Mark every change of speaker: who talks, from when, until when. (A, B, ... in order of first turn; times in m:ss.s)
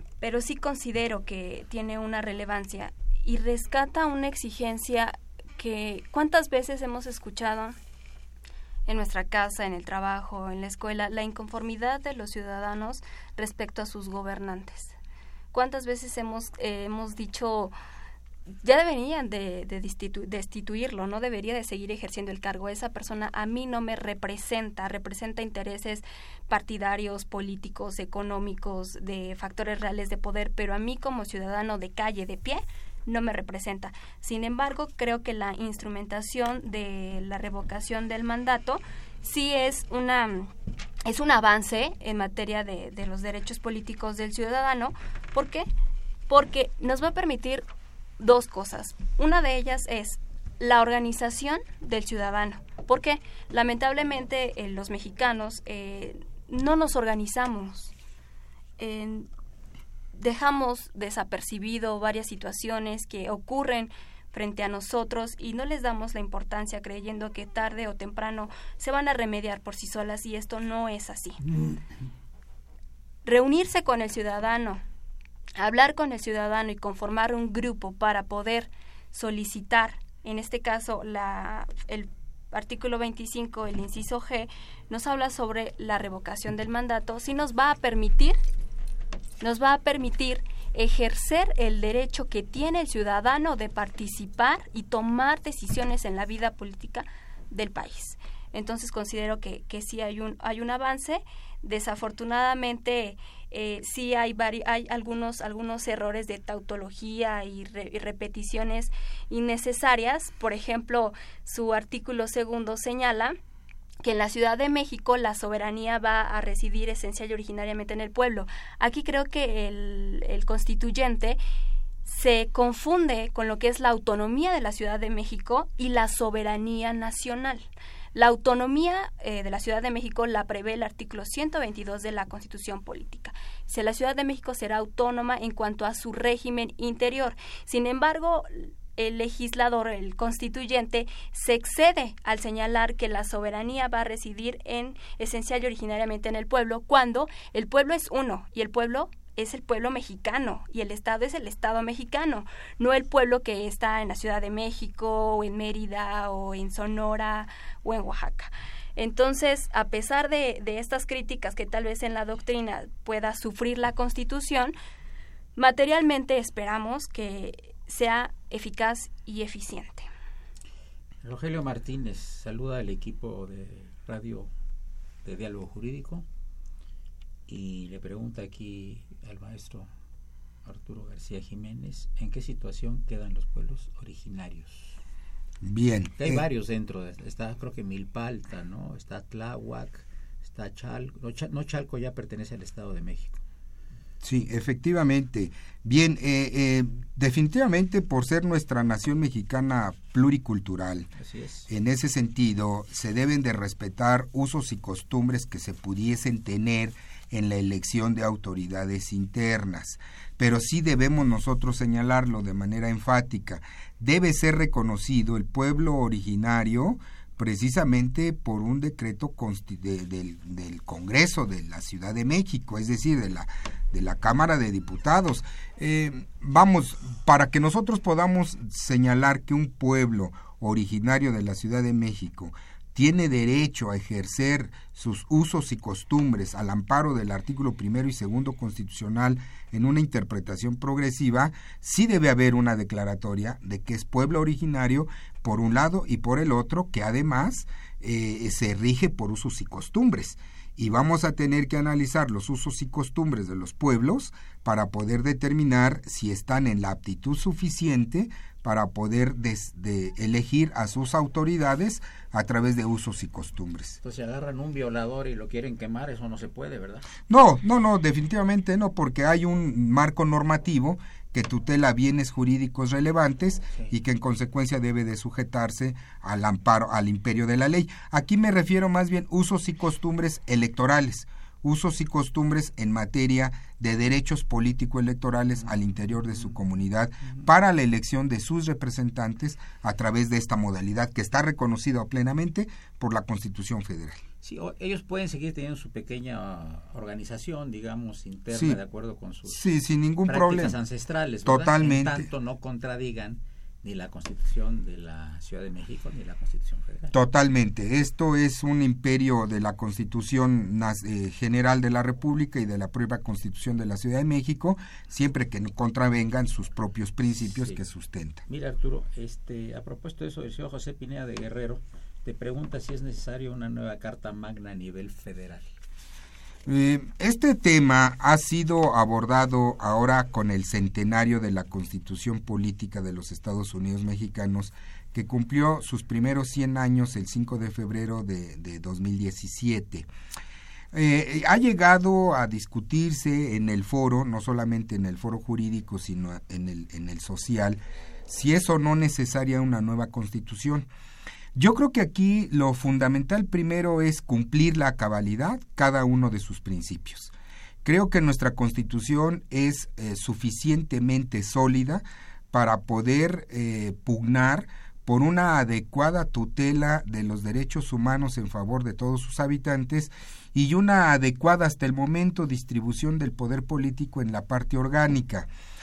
0:00.2-0:07.8 A
0:08.9-0:14.9 A
0:15.5-0:17.7 A
0:18.6-0:40.5 A
0:41.0-0:45.6 A
0:46.3-0:47.6 A
0:48.2-0:57.9 A
0:58.8-0:59.3 A
1:00.1-1:11.4 A
1:13.2-1:14.8 A
1:15.6-1:28.4 A
1:29.4-1:53.4 A
1:54.0-2:01.4 A
2:02.0-2:44.7 A
2:45.6-2:50.1 A
2:51.2-2:54.5 B
2:55.2-2:56.3 B
2:57.5-2:59.9 B
3:00.6-3:05.0 B
3:05.6-3:06.4 C
3:06.2-3:13.4 B
3:14.2-3:21.1 C
3:21.2-3:21.7 B
3:21.7-4:24.0 C
4:24.0-4:27.1 B
4:27.3-4:54.2 C
4:54.4-4:59.7 B
4:58.5-4:58.8 C
4:59.5-5:00.8 C
5:00.2-5:07.1 B
5:01.4-5:02.3 C
5:07.1-5:18.4 C
5:18.5-5:25.7 B
5:26.6-5:40.1 C
5:40.9-5:50.8 C
5:51.5-5:57.3 C
5:57.8-6:15.5 C